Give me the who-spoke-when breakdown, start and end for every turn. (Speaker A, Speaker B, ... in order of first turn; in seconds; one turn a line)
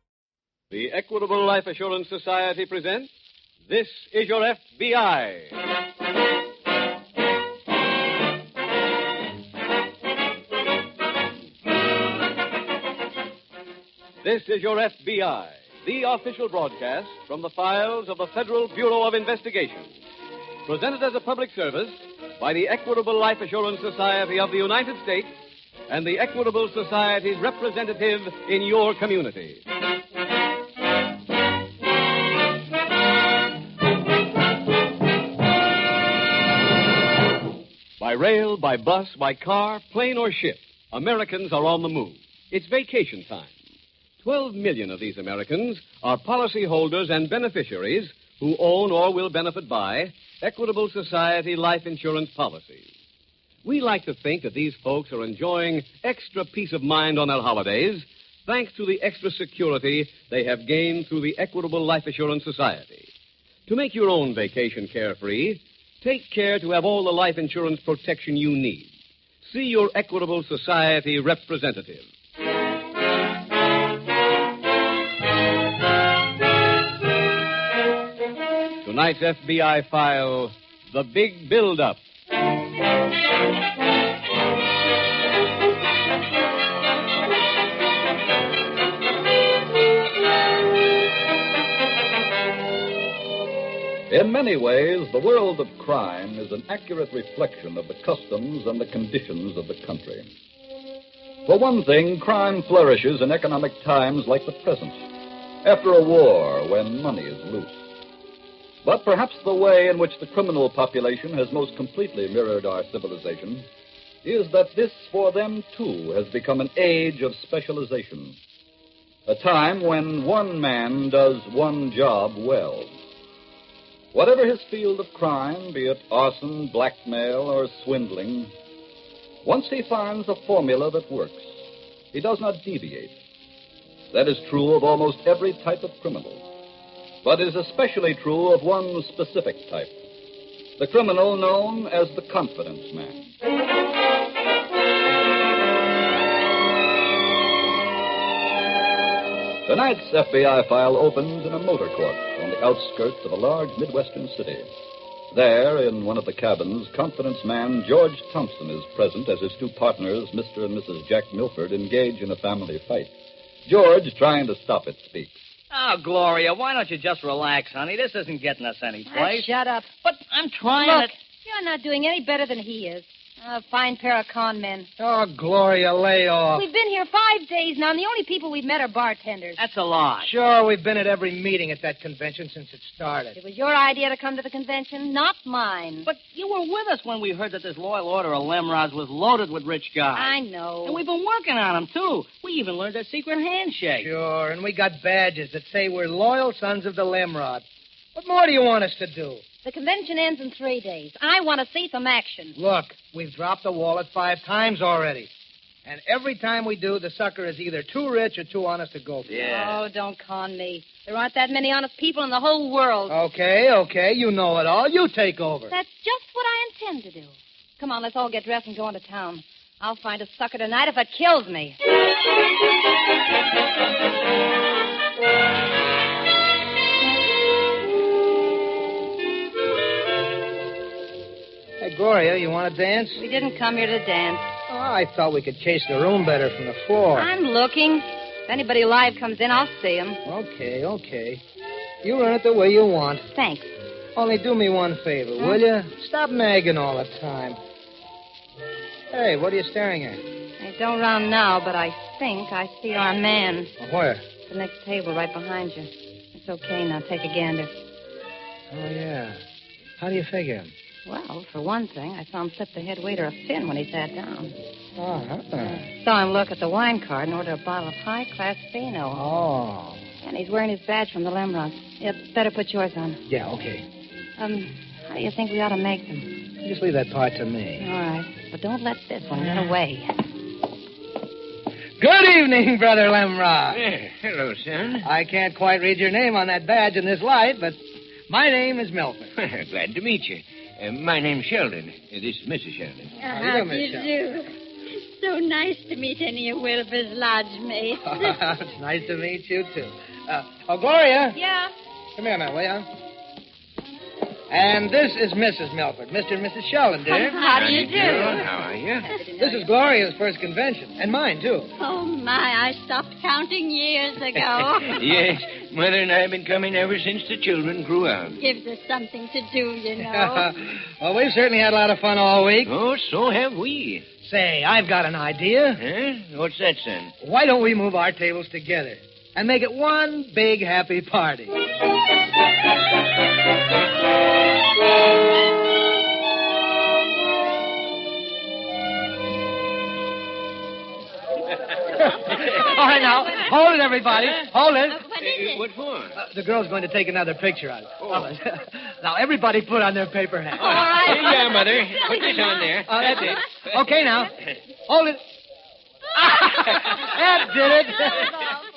Speaker A: 0.7-3.1
Speaker A: 3.7-5.5
Speaker A: 14.2-19.9
Speaker A: 20.7-25.3
Speaker A: 25.9-29.6
Speaker A: 38.0-43.5
Speaker A: 44.2-52.9
Speaker A: 53.6-63.1
Speaker A: 63.7-68.9
Speaker A: 69.4-72.1
Speaker A: 78.8-82.0
Speaker B: 94.1-100.3
Speaker B: 101.5-105.0
Speaker B: 105.6-107.8
Speaker B: 108.8-113.7
Speaker B: 114.2-118.4
Speaker B: 119.3-122.9
Speaker B: 124.1-128.5
Speaker B: 129.4-131.5
Speaker B: 132.1-133.2
Speaker B: 134.1-136.4
Speaker B: 137.2-140.0
Speaker B: 140.8-143.3
Speaker B: 149.7-154.7
Speaker B: 155.3-163.1
Speaker B: 163.7-165.3
Speaker C: 165.7-171.1
Speaker D: 169.1-169.9
Speaker D: 170.8-174.9
Speaker E: 175.0-176.7
Speaker D: 176.5-179.6
Speaker C: 179.6-180.3
Speaker E: 180.2-183.4
Speaker D: 183.3-186.1
Speaker C: 186.1-194.1
Speaker D: 190.2-191.0
Speaker E: 194.0-199.4
Speaker D: 199.6-202.6
Speaker E: 202.6-205.3
Speaker E: 205.9-209.5
Speaker C: 209.3-209.8
Speaker D: 209.4-213.2
Speaker E: 213.1-215.7
Speaker D: 215.7-221.8
Speaker E: 231.8-233.2
Speaker D: 233.2-234.5
Speaker E: 234.7-237.3
Speaker D: 237.1-240.2
Speaker E: 240.2-241.4
Speaker E: 242.0-243.3
Speaker D: 243.3-243.7
Speaker E: 244.2-247.6
Speaker E: 249.1-250.2
Speaker D: 250.6-253.7
Speaker E: 253.8-254.2
Speaker D: 254.4-257.7
Speaker E: 258.7-259.4
Speaker E: 260.0-260.7
Speaker D: 261.1-264.6
Speaker E: 265.0-265.9
Speaker D: 265.7-269.2
Speaker E: 269.1-270.1
Speaker D: 270.2-273.2
Speaker E: 273.3-273.9
Speaker D: 274.4-276.3
Speaker E: 276.6-277.9
Speaker D: 277.8-280.1
Speaker E: 282.0-283.8
Speaker F: 283.7-285.1
Speaker E: 285.0-289.3
Speaker F: 289.4-293.1
Speaker E: 293.2-294.1
Speaker G: 293.2-294.5
Speaker G: 295.1-298.4
Speaker E: 298.0-301.4
Speaker D: 301.3-301.7
Speaker E: 302.2-302.9
Speaker E: 304.5-308.4
Speaker D: 307.1-308.5
Speaker F: 307.5-309.1
Speaker D: 309.0-309.7
Speaker E: 309.4-311.7
Speaker G: 311.8-315.0
Speaker F: 314.9-318.4
Speaker G: 318.4-320.5
Speaker E: 320.0-322.7
Speaker F: 322.6-324.1
Speaker E: 324.2-325.8
Speaker F: 325.8-327.1
Speaker E: 327.2-331.6
Speaker E: 341.9-345.1
Speaker G: 344.9-345.7
Speaker F: 345.1-346.2
Speaker E: 346.2-351.4
Speaker F: 348.0-348.3
Speaker D: 350.6-352.4
Speaker F: 350.6-353.4
Speaker E: 352.4-354.3
Speaker E: 354.9-355.2
Speaker E: 356.2-358.3
Speaker D: 358.0-358.5